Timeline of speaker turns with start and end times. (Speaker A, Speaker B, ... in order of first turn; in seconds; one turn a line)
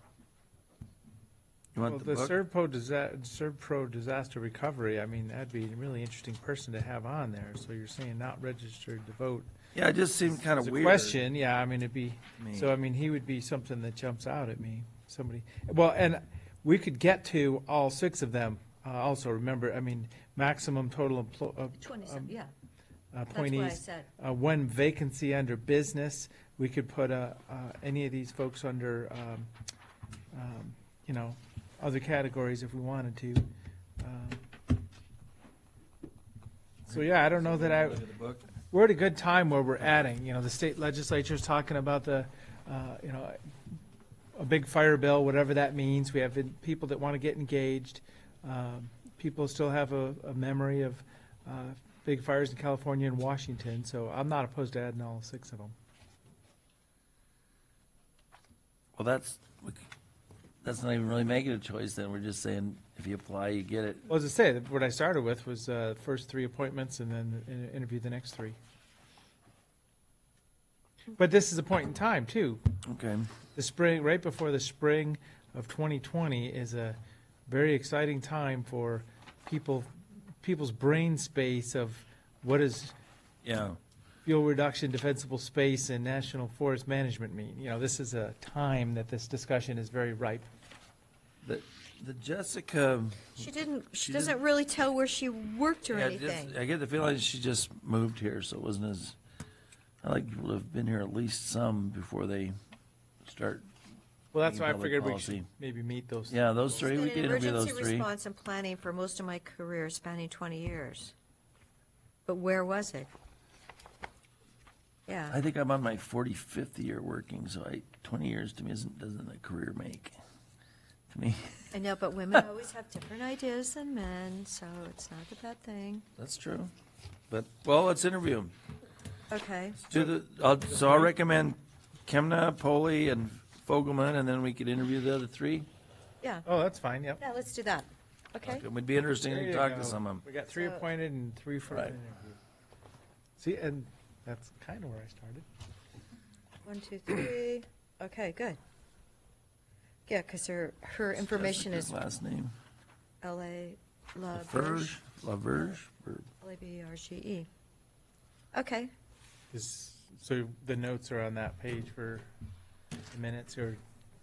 Speaker A: 1.7-2.4
Speaker B: 1.9-9.5
Speaker A: 9.8-11.2
Speaker B: 10.4-22.3
Speaker A: 12.4-12.7
Speaker C: 21.8-22.5
Speaker B: 23.1-29.5
Speaker C: 23.3-24.1
Speaker B: 30.3-33.5
Speaker B: 34.0-34.5
Speaker B: 36.9-38.0
Speaker A: 36.9-38.5
Speaker B: 38.7-43.4
Speaker B: 44.3-55.7
Speaker A: 59.0-59.9
Speaker A: 60.6-64.1
Speaker B: 64.1-68.6
Speaker B: 71.2-72.6
Speaker A: 72.9-73.3
Speaker B: 73.5-83.0
Speaker A: 83.4-83.8
Speaker B: 84.2-90.5
Speaker A: 91.4-93.5
Speaker C: 93.4-96.6
Speaker A: 94.0-94.3
Speaker A: 95.9-99.2
Speaker A: 100.0-102.6
Speaker A: 103.2-103.7
Speaker B: 104.3-106.6
Speaker A: 104.4-105.5
Speaker A: 106.3-108.1
Speaker C: 106.7-111.1
Speaker C: 112.3-113.1
Speaker C: 115.1-115.4
Speaker A: 115.3-120.2
Speaker A: 121.1-121.7
Speaker C: 121.7-126.1
Speaker A: 126.2-126.7
Speaker A: 127.3-128.5
Speaker C: 129.3-129.8
Speaker A: 129.8-135.7
Speaker B: 136.4-137.2
Speaker C: 137.2-138.6
Speaker A: 138.4-140.2
Speaker B: 139.2-142.4
Speaker C: 140.5-140.9
Speaker A: 141.7-142.0
Speaker B: 143.4-145.5
Speaker C: 146.7-148.6
Speaker C: 150.1-151.9
Speaker A: 151.2-152.5
Speaker C: 153.2-154.9
Speaker A: 154.3-156.3
Speaker C: 156.4-157.5
Speaker C: 158.5-158.9
Speaker B: 159.5-162.3
Speaker B: 163.1-163.8